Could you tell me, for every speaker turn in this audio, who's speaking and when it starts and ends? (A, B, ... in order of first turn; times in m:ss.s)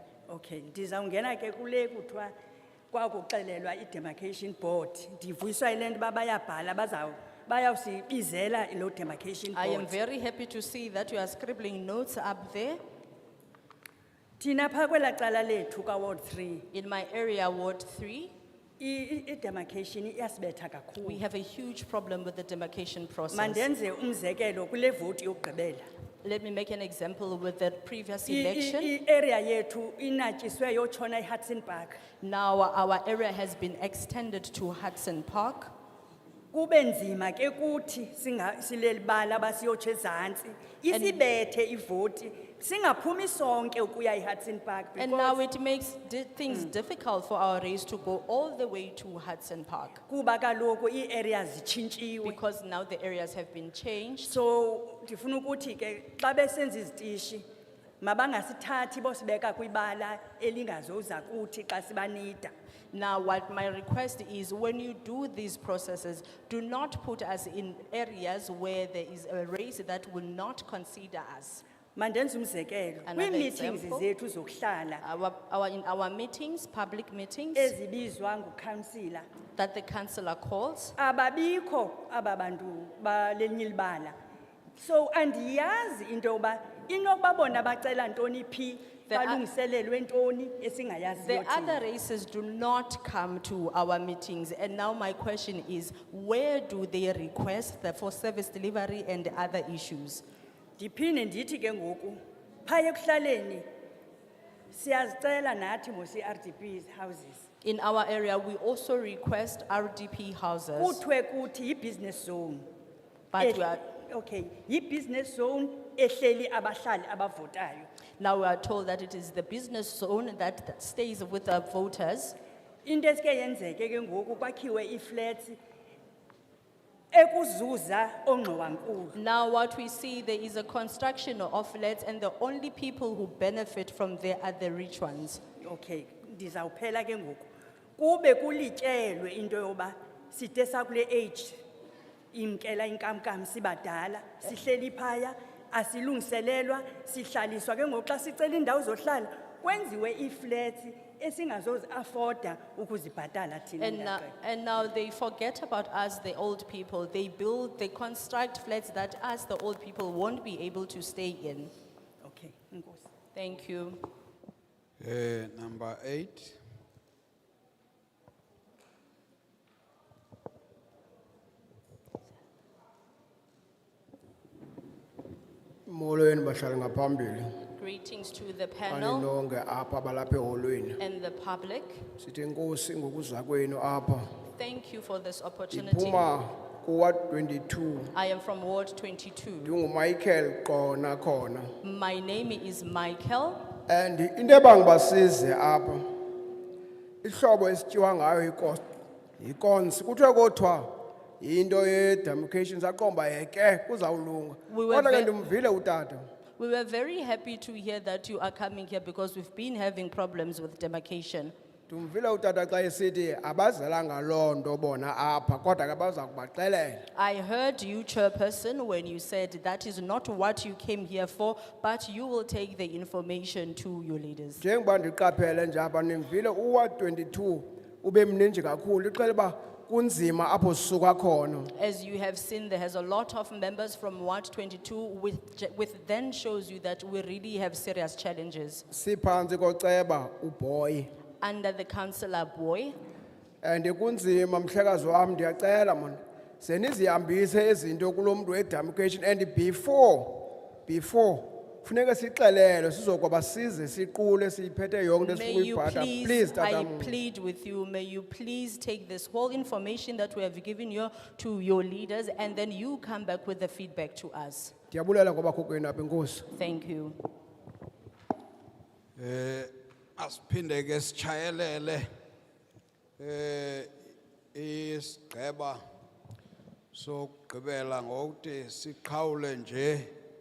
0:00.3-0:02.3 A
0:02.9-0:09.9 A
0:09.5-0:12.8 B
0:14.4-0:16.7 A
0:16.7-0:18.3 B
0:18.8-0:21.2 A
0:21.0-0:23.6 B
0:23.3-0:25.9 A
0:26.2-0:28.9 B
0:28.3-0:32.0 A
0:32.2-0:35.7 B
0:36.5-0:45.4 A
0:40.9-0:41.2 B
0:45.0-0:50.0 B
0:50.1-0:52.4 A
0:52.2-0:54.4 B
0:54.2-0:57.4 A
0:58.0-1:02.5 A
1:02.9-1:11.6 B
1:12.0-1:15.0 A
1:13.1-1:14.0 B
1:15.0-1:17.7 B
1:17.6-1:19.3 A
1:19.6-1:21.0 B
1:21.0-1:24.2 A
1:24.8-1:31.8 A
1:29.1-1:29.4 B
1:31.2-1:40.2 B
1:40.8-1:43.6 A
1:44.7-1:47.5 A
1:47.6-1:51.0 B
1:50.8-1:52.7 A
1:53.3-1:53.8 B
1:53.4-1:57.9 A
1:58.2-2:02.4 B
2:02.8-2:05.6 A
2:07.1-2:09.2 A
2:09.1-2:15.4 B
2:15.6-2:21.6 A
2:22.3-2:34.4 A
2:33.8-2:41.7 B
2:42.2-2:43.1 A
2:43.3-2:44.0 B
2:45.0-2:46.6 C
2:55.9-2:57.5 D
2:57.8-2:59.3 B
2:58.9-3:01.0 D
3:01.0-3:02.1 B
3:02.2-3:04.2 D
3:04.6-3:06.3 B
3:05.7-3:08.1 D
3:08.1-3:09.8 B
3:09.6-3:11.7 D
3:11.8-3:13.8 B
3:13.9-3:16.2 D
3:17.2-3:18.8 D
3:19.4-3:26.3 D
3:24.7-3:25.4 B
3:26.6-3:31.5 B
3:31.9-3:37.0 D
3:37.2-3:44.6 B
3:44.6-3:51.7 D
3:51.7-3:58.8 B
3:58.9-4:01.1 D
4:01.4-4:03.0 B
4:03.6-4:17.2 D
4:15.2-4:24.7 B
4:24.9-4:26.5 D
4:26.5-4:27.2 B
4:29.2-4:32.0 C
4:33.2-4:33.9 C
4:34.5-4:35.8 C
4:36.9-4:40.1 C